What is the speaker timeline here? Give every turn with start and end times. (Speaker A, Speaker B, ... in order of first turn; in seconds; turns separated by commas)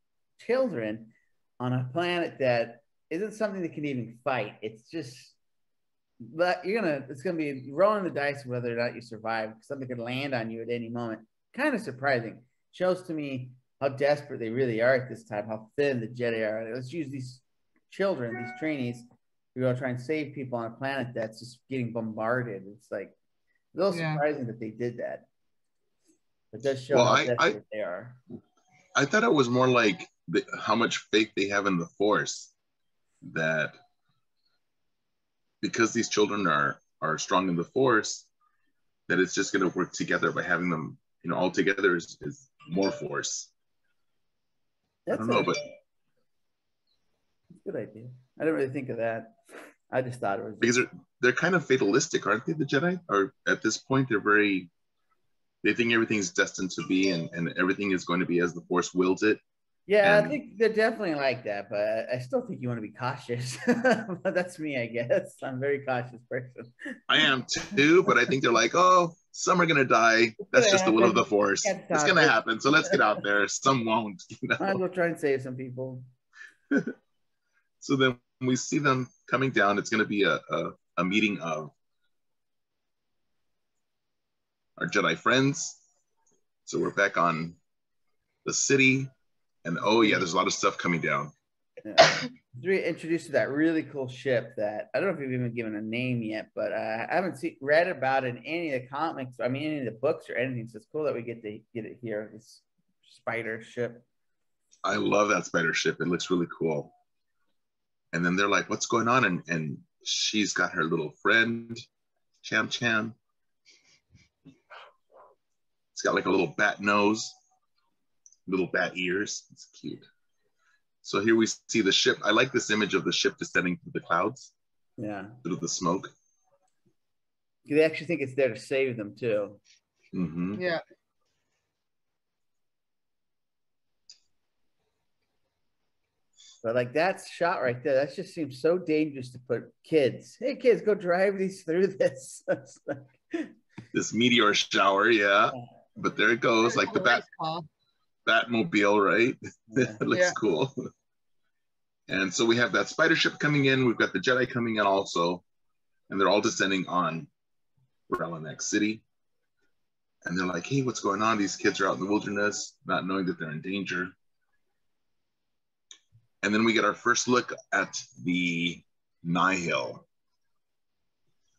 Speaker A: 0.4-5.4, Speaker A: 6.2-23.1, Speaker A: 23.7-25.3, Speaker B: 23.9-24.2, Speaker A: 26.5-28.2, Speaker C: 26.9-27.6, Speaker C: 28.9-32.5, Speaker C: 33.2-33.8, Speaker C: 35.6-38.3, Speaker C: 39.1-43.5, Speaker A: 45.1-45.7, Speaker C: 45.1-45.6, Speaker A: 47.6-49.4, Speaker A: 49.9-50.9, Speaker C: 50.6-54.7, Speaker C: 55.6-59.4, Speaker A: 59.9-67.9, Speaker C: 60.0-60.4, Speaker C: 67.1-74.8, Speaker A: 70.5-73.0, Speaker A: 74.6-76.0, Speaker C: 77.8-81.7, Speaker C: 84.8-85.8, Speaker C: 86.7-87.6, Speaker C: 88.4-89.1, Speaker C: 89.6-91.3, Speaker A: 89.9-90.2, Speaker A: 91.8-104.1, Speaker C: 104.8-106.9, Speaker C: 108.1-111.8, Speaker C: 112.4-113.2, Speaker C: 115.9-117.3, Speaker C: 118.5-120.1, Speaker C: 121.0-124.5, Speaker A: 125.0-125.4, Speaker C: 125.4-126.1, Speaker A: 127.7-129.6, Speaker C: 130.1-130.6, Speaker B: 130.6-130.8, Speaker A: 136.6-143.5, Speaker C: 143.9-147.2, Speaker B: 146.6-147.7, Speaker C: 148.3-150.7, Speaker A: 149.7-150.0, Speaker B: 150.1-150.4, Speaker C: 152.1-155.4, Speaker C: 156.1-157.3, Speaker C: 158.1-159.0, Speaker C: 160.2-164.1, Speaker C: 166.4-170.1